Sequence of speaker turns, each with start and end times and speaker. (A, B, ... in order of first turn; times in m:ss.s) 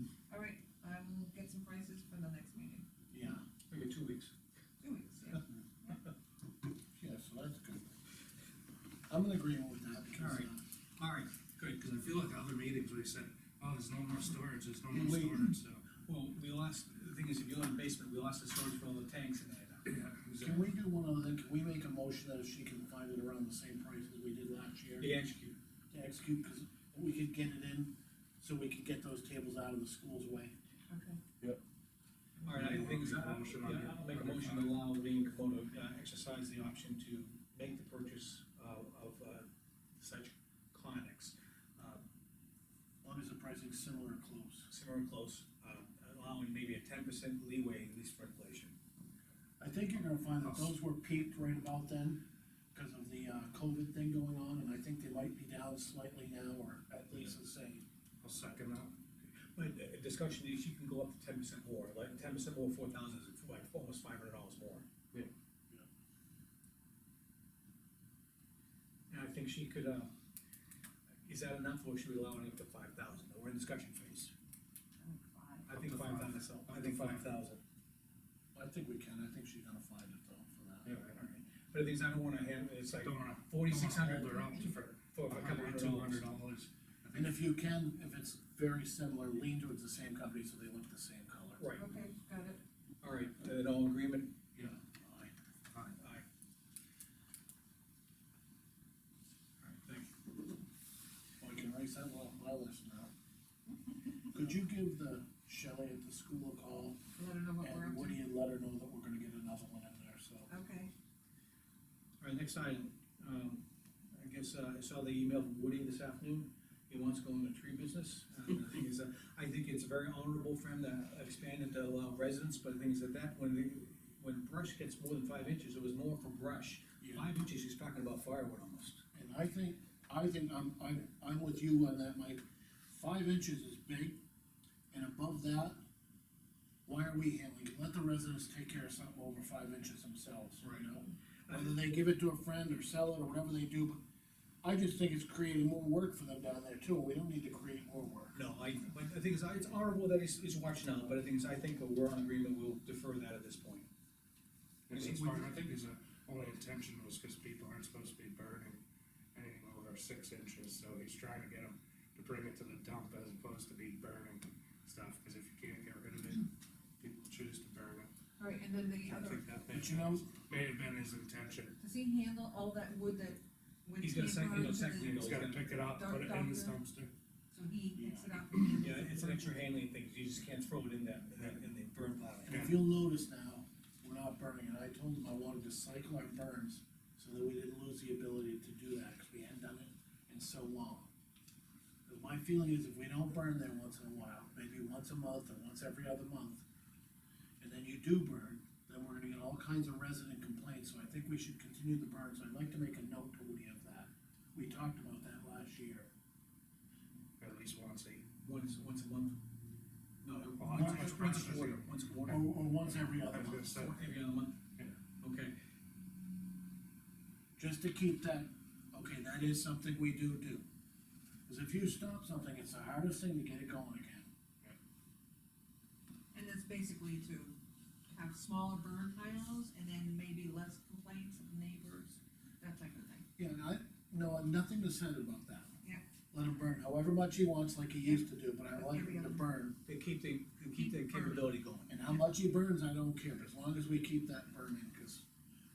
0:00.3-0:02.9 A
0:03.1-0:03.4 B
0:03.7-0:04.3 C
0:04.8-0:06.0 A
0:07.0-0:08.0 B
0:09.1-0:10.6 B
0:10.2-0:11.8 C
0:11.7-0:15.9 D
0:14.9-0:20.0 C
0:19.8-0:20.7 D
0:20.4-0:25.1 B
0:25.0-0:25.6 C
0:25.9-0:30.5 B
0:30.9-0:31.2 A
0:32.4-0:42.0 C
0:32.4-0:34.8 D
0:43.0-0:44.7 B
0:44.7-0:48.8 C
0:49.6-0:52.2 B
0:50.4-0:50.7 D
0:52.7-0:57.8 B
0:58.2-0:59.0 D
0:59.5-1:04.8 C
1:09.1-1:10.1 C
1:11.2-1:14.3 C
1:15.0-1:15.7 A
1:15.7-1:17.6 C
1:15.7-1:17.3 D
1:18.5-1:20.9 B
1:20.8-1:21.2 D
1:21.1-1:26.2 C
1:22.9-1:27.4 D
1:27.1-1:31.6 B
1:31.6-1:31.9 C
1:31.8-1:32.6 A
1:33.0-1:34.4 C
1:34.5-1:35.3 B
1:35.7-1:36.0 D
1:35.9-1:36.2 C
1:39.6-1:40.1 C
1:41.4-1:43.1 B
1:44.3-1:47.0 B
1:47.1-1:48.2 A
1:47.6-1:50.5 B
1:50.5-1:50.9 A
1:52.2-2:09.0 C
2:07.0-2:07.3 B
2:09.1-2:14.2 B
2:14.9-2:15.8 B
2:16.8-2:24.0 B
2:20.6-2:20.9 C
2:21.5-2:21.8 C
2:24.6-2:28.6 B
2:28.3-2:33.9 C
2:34.9-2:38.8 D
2:34.9-2:35.5 C
2:39.3-2:48.1 D
2:48.4-2:49.5 A
2:49.0-2:51.8 D
2:49.7-2:50.3 B
2:51.8-2:56.8 A
2:54.0-2:55.8 C
2:54.9-2:57.1 D
2:57.5-2:59.6 A
2:57.9-2:58.3 B
2:58.8-3:02.7 C
3:02.5-3:02.8 D
3:02.5-3:11.1 B
3:12.0-3:16.6 B
3:17.6-3:26.1 B
3:27.4-3:28.3 D
3:28.4-3:29.4 C
3:30.2-3:32.5 C
3:30.6-3:31.9 D
3:30.7-3:31.4 B
3:32.3-3:33.9 B
3:32.8-3:34.1 D
3:33.5-3:34.6 C
3:35.2-3:35.5 C
3:37.6-3:40.6 B
3:41.4-3:44.3 B
3:46.3-3:47.6 A
3:48.1-3:53.2 A
3:53.4-3:55.7 B
3:56.3-3:59.8 B
3:58.0-3:59.4 A
3:59.8-4:01.9 C
4:00.7-4:01.4 A
4:01.9-4:05.2 B